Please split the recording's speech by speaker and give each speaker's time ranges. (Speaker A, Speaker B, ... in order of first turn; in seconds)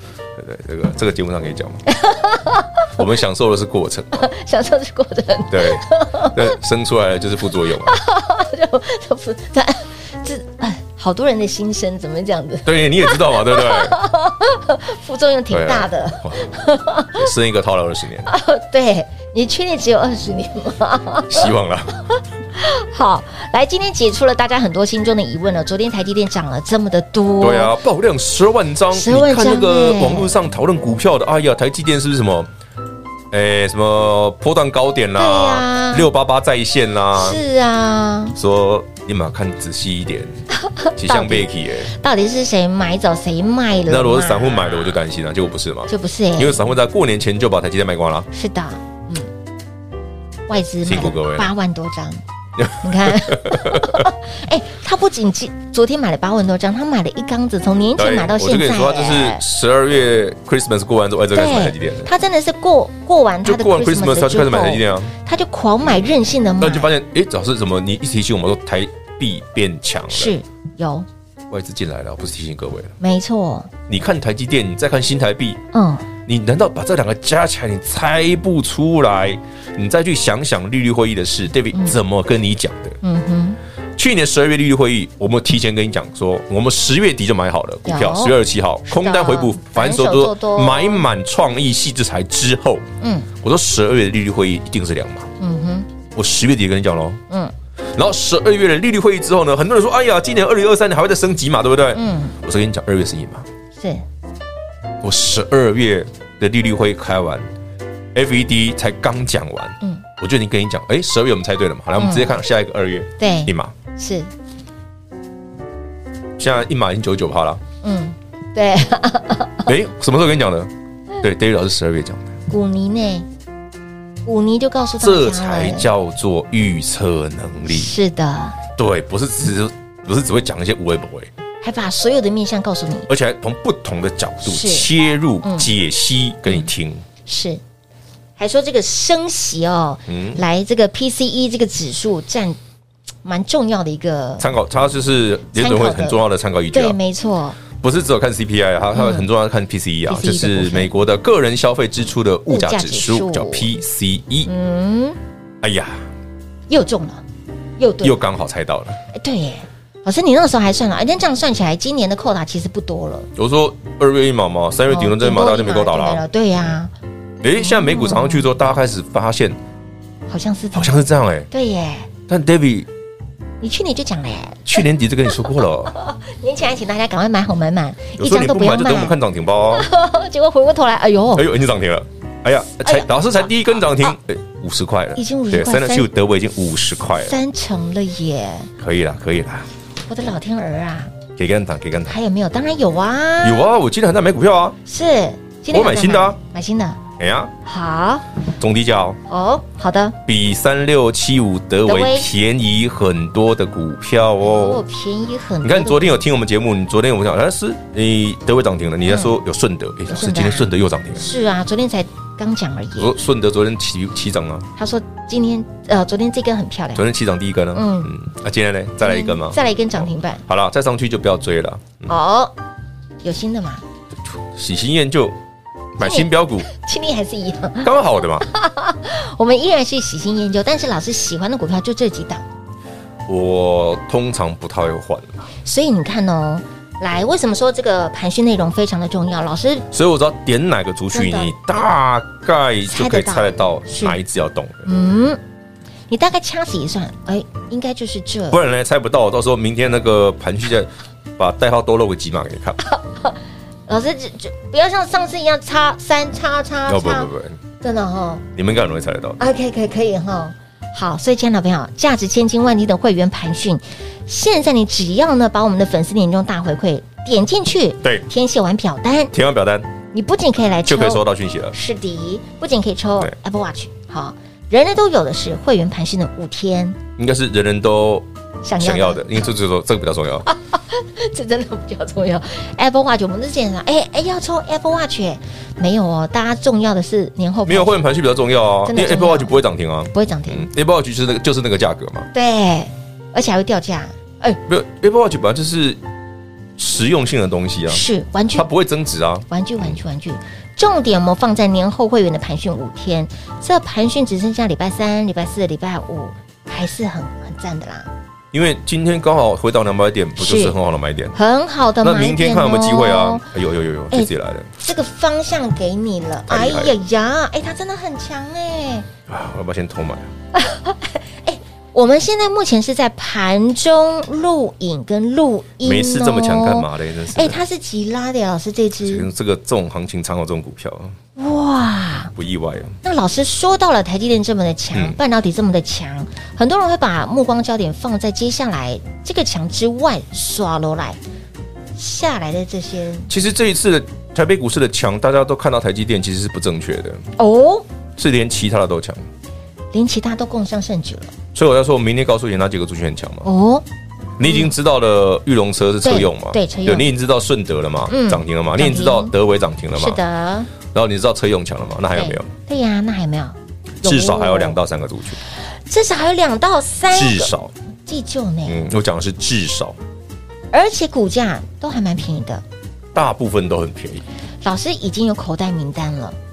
Speaker A: 0.3-1.8, 3.0-4.3, 5.5-8.0, 12.6-13.9, 15.5-16.5, 17.1-18.3, 21.3-21.9, 27.4-32.5, 33.3-37.4, 38.3-40.4, 41.0-41.9, 43.9-48.3, 50.8-51.5, 52.6-54.1, 58.0-62.1, 63.4-65.1, 66.6-70.3, 71.5-72.9, 73.9-75.6, 76.2-83.0, 84.0-92.8, 93.4-95.3, 96.1-97.2, 98.0-103.5, 105.0-107.5, 108.1-113.8, 116.4-117.6, 119.7-120.7, 121.2-122.3, 125.0-127.9, 128.8-131.3, 133.1-137.0, 140.1-140.4, 144.4-147.0, 147.8-154.5, 155.6-156.1, 158.0-159.0, 163.3-166.2, 167.4-169.6, 170.7-171.5, 172.3-172.9, 174.7-175.9, 178.2-179.9, 181.3-187.4, 188.8-189.7, 191.3-192.2, 193.4-194.8, 195.7-196.4, 197.2-197.5, 198.6-199.2, 200.2-204.8, 205.6-211.2, 213.0-214.7, 217.0-222.1, 224.5-225.4, 226.0-226.7, 227.8-228.5, 233.3-235.5, 239.9-244.8, 248.5-252.8, 256.9-257.6, 258.5-259.4, 269.3-269.9, 270.9-271.7, 277.2-278.2, 278.8-280.5, 287.6-292.3, 294.7-296.0, 296.8-300.0, 308.5-311.4, 312.0-314.7, 316.5-316.9, 319.3-320.3, 325.8-327.6, 329.0-331.1, 332.3-333.0, 343.3-347.2, 348.1-349.2, 351.5-353.5, 354.4-360.2, 360.9-362.5, 364.0-365.4, 367.1-367.7, 368.6-370.0, 373.1-374.2
Speaker B: 1.9-2.9, 4.2-6.5, 7.8-17.2, 18.3-21.5, 22.5-27.7, 28.9-30.3, 35.1-36.1, 37.1-38.4, 40.6-44.9, 45.9-46.6, 48.3-49.3, 50.5-52.2, 52.8-59.4, 61.3-66.9, 70.1-71.0, 73.0-73.7, 75.7-76.1, 83.0-83.6, 87.8-91.0, 93.0-93.3, 95.4-95.9, 101.9-102.3, 103.8-104.0, 112.0-112.3, 113.2-114.3, 117.8-119.7, 122.5-123.3, 124.2-125.9, 127.7-128.6, 131.6-133.1, 134.4-134.9, 135.4-135.7, 137.2-137.6, 138.4-142.6, 143.2-144.5, 145.5-146.2, 146.7-147.6, 148.9-149.3, 150.1-150.9, 152.5-153.7, 154.4-155.2, 156.7-157.2, 157.8-158.2, 159.1-163.3, 164.9-166.9, 167.6-168.5, 170.3-172.1, 173.6-179.2, 179.7-181.5, 182.8-184.1, 185.2-186.1, 187.2-188.7, 190.1-191.1, 192.1-193.7, 194.8-197.0, 197.6-198.3, 199.3-200.2, 201.8-202.3, 204.4-206.2, 209.1-209.3, 210.1-213.1, 214.8-217.0, 217.7-218.1, 219.0-220.4, 222.1-222.5, 223.2-223.8, 226.0-232.4, 235.6-239.9, 241.1-241.5, 242.9-244.2, 244.8-245.4, 246.1-248.6, 252.8-253.4, 253.9-258.4, 259.4-269.3, 270.1-277.0, 278.6-279.2, 280.5-288.0, 288.9-290.7, 292.3-294.6, 297.9-298.7, 299.5-308.1, 310.4-310.8, 311.3-313.4, 314.1-319.1, 320.5-329.3, 331.4-332.3, 333.0-341.2, 342.0-343.3, 347.4-347.8, 349.9-351.3, 353.4-353.8, 354.5-354.7, 356.0-357.1, 358.1-359.3, 359.9-360.7, 362.1-364.8, 365.6-367.5, 368.1-368.8, 370.7-372.6, 374.6-376.4